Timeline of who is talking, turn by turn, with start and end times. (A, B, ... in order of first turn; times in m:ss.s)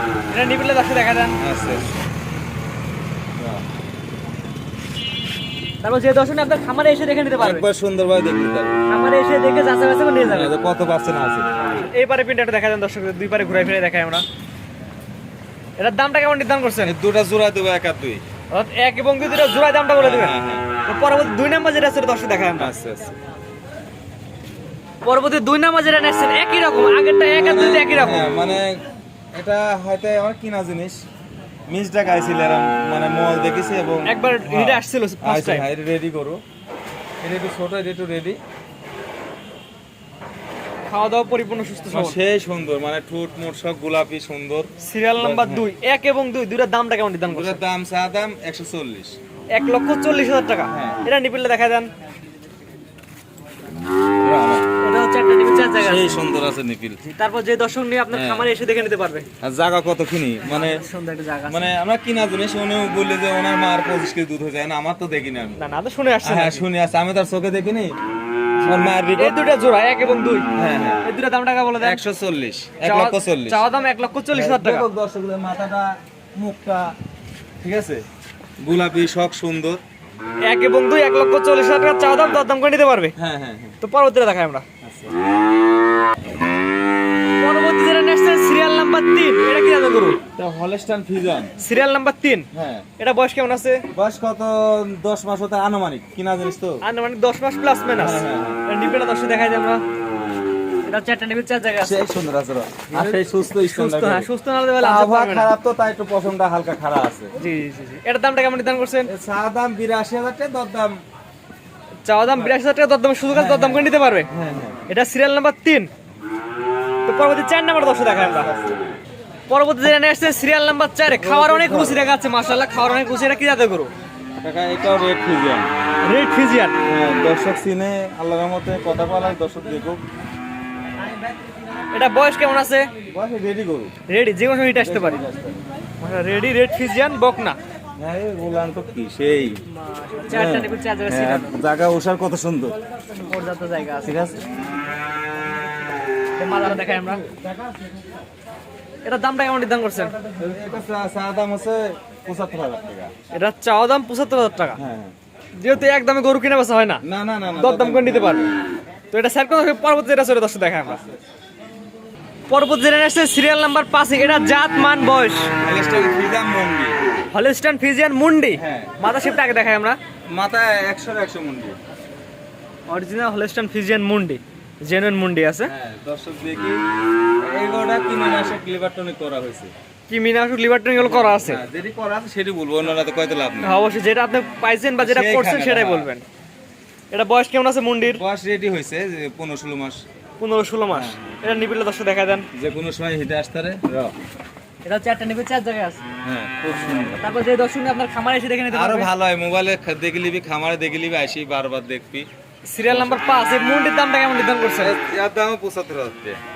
0:00.3-0:01.4 A
0:01.4-0:01.9 B
0:03.4-0:03.6 B
0:05.8-0:07.7 A
0:07.4-0:08.7 B
0:08.9-0:10.5 A
0:10.2-0:11.5 B
0:11.7-0:14.2 A
0:15.8-0:16.9 A
0:16.8-0:18.2 B
0:18.5-0:20.3 A
0:20.0-0:20.6 B
0:20.8-0:22.7 A
0:22.6-0:23.1 B
0:25.0-0:28.3 A
0:27.3-0:28.8 B
0:29.3-0:31.0 B
0:31.7-0:36.4 B
0:34.0-0:35.6 A
0:37.2-0:38.4 B
0:40.9-0:42.2 A
0:41.9-0:45.6 B
0:44.8-0:47.6 A
0:47.3-0:49.2 B
0:49.5-0:51.9 A
0:50.7-0:51.0 B
0:54.2-0:54.6 B
0:54.8-0:56.2 A
0:55.8-0:57.0 B
0:57.0-0:59.3 A
0:58.1-0:58.5 B
0:59.4-1:00.8 B
1:00.4-1:01.7 A
1:01.5-1:05.6 B
1:05.6-1:06.6 A
1:06.2-1:07.9 B
1:08.6-1:10.5 A
1:08.6-1:09.4 B
1:10.5-1:11.0 B
1:11.0-1:12.0 A
1:11.8-1:13.6 B
1:12.8-1:14.8 A
1:14.3-1:16.9 B
1:17.6-1:18.0 B
1:18.6-1:19.8 B
1:20.4-1:23.1 A
1:23.2-1:23.8 B
1:23.8-1:24.6 A
1:24.8-1:25.1 B
1:27.4-1:30.2 A
1:30.4-1:31.5 B
1:31.6-1:32.5 A
1:32.5-1:32.8 B
1:33.0-1:33.8 A
1:33.9-1:36.8 B
1:36.8-1:39.8 A
1:38.0-1:38.6 B
1:40.8-1:42.1 A
1:41.8-1:44.3 B
1:42.9-1:45.5 A
1:44.8-1:47.3 B
1:47.4-1:49.1 A
1:49.0-1:51.0 B
1:52.0-1:54.3 A
1:53.3-1:54.8 B
1:54.9-1:55.9 A
1:57.0-1:58.5 A
1:58.1-1:58.8 B
1:59.5-2:03.9 A
2:01.2-2:02.1 B
2:04.4-2:05.7 B
2:06.0-2:06.8 A
2:06.9-2:10.0 B
2:11.9-2:12.9 A
2:13.1-2:13.9 B
2:14.1-2:15.2 A
2:14.8-2:15.6 B
2:16.0-2:17.6 A
2:18.0-2:19.6 B
2:19.7-2:21.5 A
2:20.3-2:22.7 B
2:23.2-2:24.2 A
2:24.0-2:24.4 B
2:26.4-2:27.2 A
2:27.3-2:27.7 B
2:29.0-2:30.1 A
2:30.3-2:33.1 B
2:33.3-2:34.8 A
2:34.8-2:35.1 B
2:35.6-2:37.0 A
2:37.0-2:38.5 B
2:37.6-2:38.5 A
2:39.1-2:41.0 A
2:40.8-2:41.2 B
2:42.5-2:45.5 A
2:45.6-2:47.0 B
2:47.3-2:50.0 A
2:48.6-2:49.0 B
2:50.3-2:51.8 B
2:52.9-2:55.7 A
2:55.6-2:56.8 B
2:57.4-2:59.7 B
3:00.1-3:01.6 A
3:01.0-3:03.8 B
3:03.6-3:06.2 A
3:05.0-3:06.1 B
3:07.1-3:08.2 A
3:08.0-3:10.0 B
3:10.4-3:12.5 A
3:10.9-3:11.4 B
3:12.5-3:14.1 B
3:14.8-3:16.0 A
3:16.2-3:17.2 B
3:16.9-3:19.1 A
3:18.7-3:22.3 B
3:22.7-3:24.9 A
3:22.9-3:23.2 B
3:24.8-3:26.4 B